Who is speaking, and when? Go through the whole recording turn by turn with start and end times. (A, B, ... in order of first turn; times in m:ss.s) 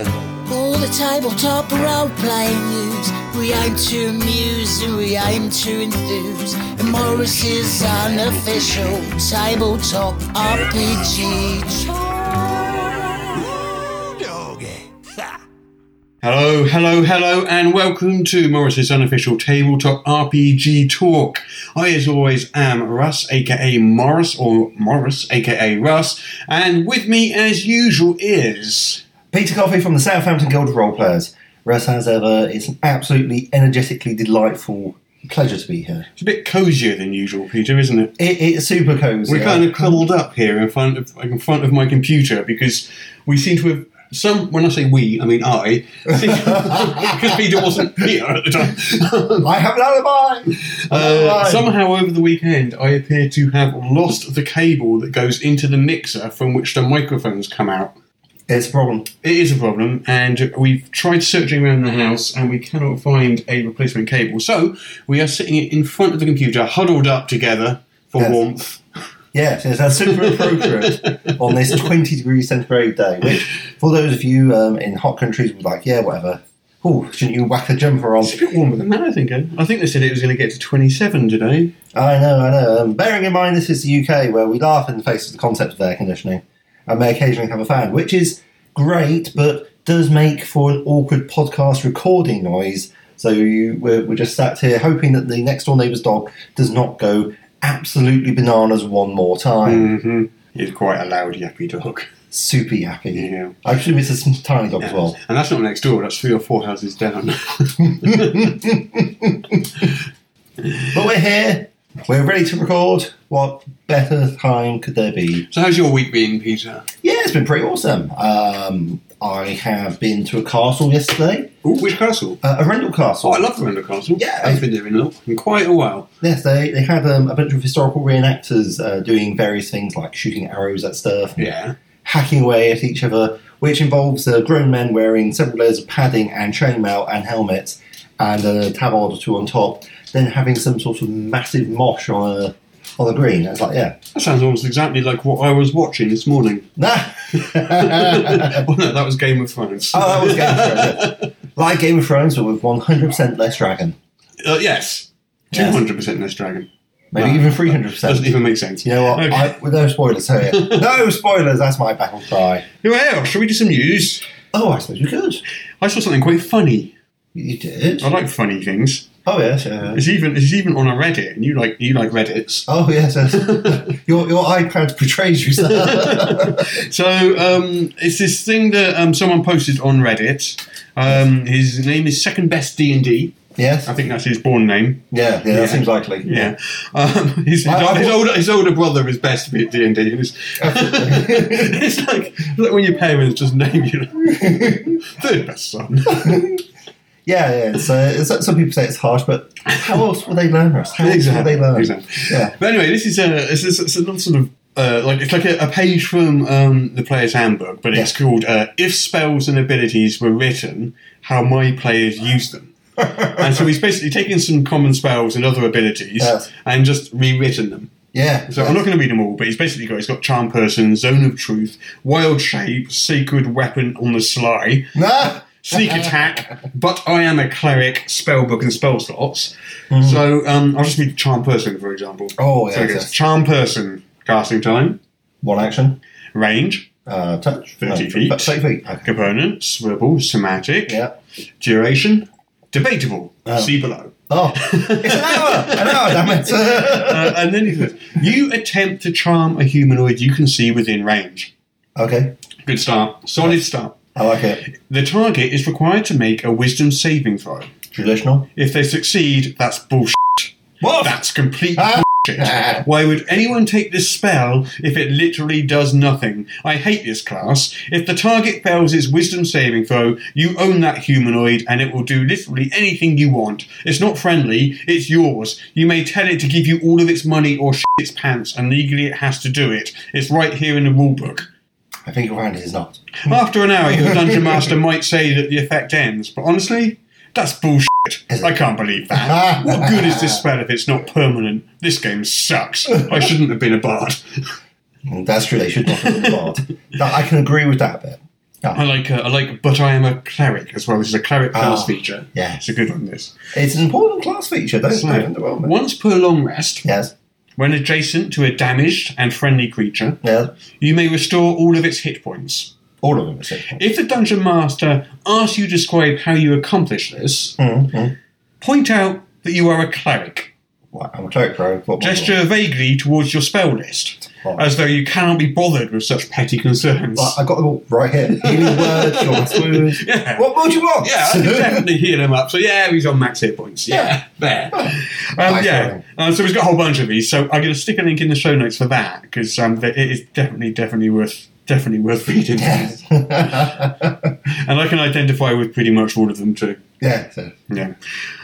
0:00.4-0:12.0 A
0:16.2-0:29.0 B
0:29.3-0:36.1 C
0:36.2-0:38.1 B
0:38.2-0:40.0 C
0:39.3-0:49.5 B
0:46.2-0:47.2 C
0:49.4-0:51.7 C
0:50.6-0:57.9 B
0:58.5-0:59.1 C
0:59.2-1:08.8 B
1:09.3-1:18.4 C
1:10.2-1:11.3 B
1:18.2-1:21.7 B
1:21.9-1:39.9 C
1:39.6-1:42.1 B
1:42.3-1:45.2 C
1:43.1-1:43.5 B
1:44.8-1:48.5 B
1:48.0-1:49.7 C
1:50.9-1:55.5 C
1:55.5-1:56.8 B
1:57.0-2:01.5 C
2:01.6-2:02.4 B
2:02.4-2:03.4 C
2:03.2-2:06.1 B
2:04.2-2:04.6 C
2:06.2-2:11.5 C
2:11.4-2:11.8 B
2:12.0-2:24.0 C
2:24.1-2:26.7 B
2:26.8-2:28.6 C
2:27.3-2:31.3 B
2:29.9-2:34.0 C
2:34.4-2:39.6 B
2:35.5-2:35.8 C
2:37.1-2:42.6 C
2:40.5-2:40.8 B
2:42.8-2:44.2 B
2:44.5-2:45.4 C
2:45.8-2:46.9 B
2:47.3-2:48.1 C
2:48.0-2:49.1 B
2:49.2-2:50.0 C
2:49.9-2:52.7 B
2:52.7-2:56.8 C
2:53.3-2:53.9 B
2:55.6-3:16.4 B
3:03.5-3:03.9 C
3:05.1-3:06.5 C
3:07.6-3:08.2 C
3:10.6-3:11.8 C
3:14.3-3:15.0 C
3:16.0-3:16.6 C
3:17.2-3:22.5 C
3:21.0-3:37.9 B
3:33.0-3:33.6 C
3:36.2-3:36.5 C
3:38.1-3:38.8 C
3:38.5-3:55.0 B
3:44.9-3:46.1 C
3:49.9-3:50.2 C
3:52.4-3:53.1 C
3:55.4-3:56.0 C
3:56.3-3:56.9 B
3:57.1-3:59.2 C
3:57.8-4:01.0 B
4:00.9-4:01.1 C
4:01.6-4:11.5 B
4:03.4-4:03.7 C
4:04.3-4:07.4 C
4:12.0-4:12.4 C
4:12.6-4:14.0 B
4:14.1-4:14.6 C
4:14.6-4:17.7 B
4:17.9-4:18.5 C
4:18.6-4:41.5 B
4:20.8-4:21.2 C
4:21.8-4:22.8 C
4:42.0-4:43.0 C
4:43.2-4:54.5 B
4:43.9-4:44.6 C
4:49.1-4:50.4 C
4:55.1-4:58.8 C
4:55.9-4:56.4 B
4:58.7-5:03.4 B
5:01.5-5:02.6 C
5:03.5-5:05.7 C
5:04.9-5:06.9 B
5:06.8-5:07.1 C
5:07.6-5:10.2 B
5:10.2-5:10.5 C
5:10.8-5:12.8 B
5:13.0-5:13.8 C
5:13.7-5:17.6 B
5:17.6-5:18.1 C
5:18.6-5:20.5 B
5:20.9-5:22.4 C
5:22.0-5:27.4 B
5:24.3-5:24.6 C
5:27.2-5:31.9 C
5:28.4-5:43.0 B
5:33.9-5:34.1 C
5:35.4-5:36.0 C
5:42.6-5:44.3 C
5:44.4-5:46.8 B
5:47.0-5:47.6 C
5:47.7-5:48.0 B